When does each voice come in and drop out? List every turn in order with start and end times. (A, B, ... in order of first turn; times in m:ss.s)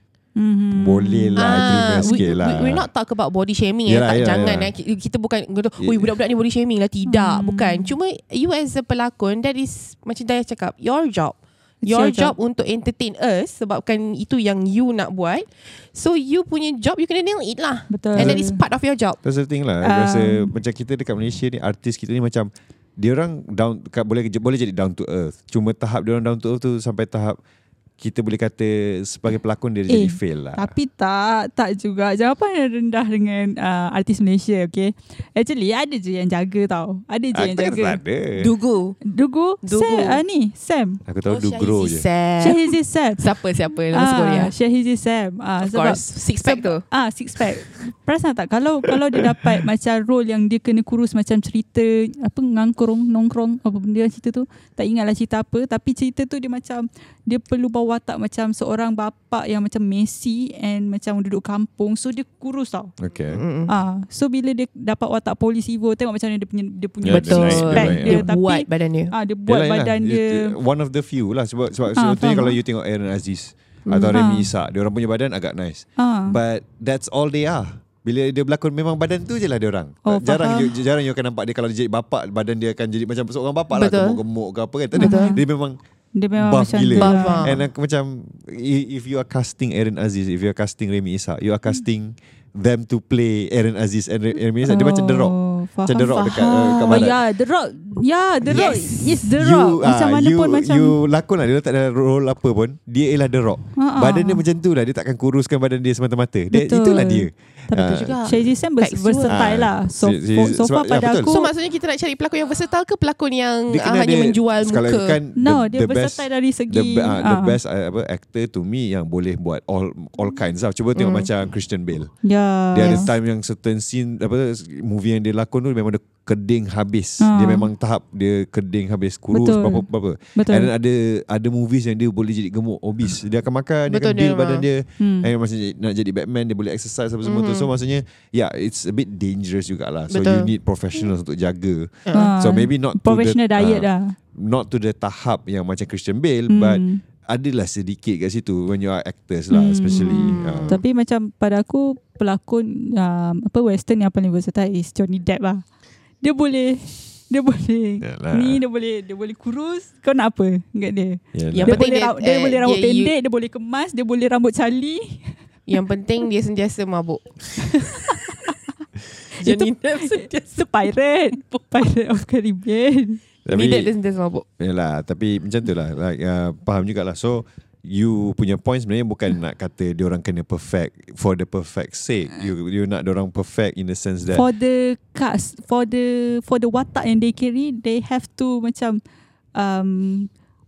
0:00.4-0:02.2 A
0:00.7-0:02.9 B
0:01.4-0:19.2 C
0:03.9-0:04.7 B
0:05.8-0:06.1 B
0:07.0-0:07.9 A
0:11.8-0:12.3 A
0:17.9-0:18.6 A
0:19.2-0:27.4 B
0:19.8-0:20.5 A
0:28.0-0:30.7 B
0:29.9-0:38.0 A
0:37.3-0:38.5 B
0:38.4-0:39.0 C
0:39.0-0:41.0 A
0:39.6-0:40.2 C
0:41.0-0:42.0 B
0:41.3-0:44.5 C
0:42.4-0:43.3 A
0:43.9-1:02.9 A
0:45.6-0:46.8 C
0:49.1-0:49.6 B
1:03.0-1:03.4 B
1:03.3-1:03.7 C
1:03.7-1:10.5 A
1:07.0-1:08.3 B
1:07.0-1:09.1 C
1:09.5-1:25.8 B
1:12.0-1:12.6 A
1:13.8-1:14.2 C
1:14.1-1:14.5 A
1:16.0-1:16.4 A
1:20.0-1:20.8 A
1:23.7-1:24.2 C
1:24.9-1:25.4 C
1:25.0-1:25.4 A
1:26.1-1:27.6 A
1:26.4-1:35.3 B
1:27.0-1:27.5 C
1:34.6-1:41.0 A
1:35.8-1:37.1 B
1:36.1-1:37.0 C
1:38.4-1:48.5 B
1:38.5-1:39.2 C
1:43.8-1:44.4 A
1:46.5-1:51.5 A
1:47.8-1:49.4 C
1:49.3-1:51.3 B
1:51.2-1:55.2 C
1:53.7-2:02.1 B
1:55.4-1:57.6 A
2:00.9-2:01.3 C
2:02.2-2:03.1 A
2:02.7-2:30.8 B
2:07.2-2:07.7 A
2:09.3-2:10.7 A
2:13.9-2:14.6 C
2:15.0-2:15.3 A
2:17.2-2:17.7 C
2:20.1-2:20.5 C
2:22.0-2:22.3 C
2:22.1-2:24.1 A
2:26.5-2:27.0 A
2:29.5-2:35.6 A
2:30.0-2:30.8 C
2:36.2-2:45.4 A
2:38.0-2:38.6 B
2:41.3-2:41.8 B
2:41.5-2:43.1 C
2:45.7-2:48.2 C
2:48.1-2:48.5 A
2:49.4-2:50.6 C
2:49.4-2:53.2 A
2:53.4-2:53.9 B
2:53.5-2:54.4 C
2:54.6-3:04.4 B
3:04.3-3:09.0 A
3:09.5-3:10.3 A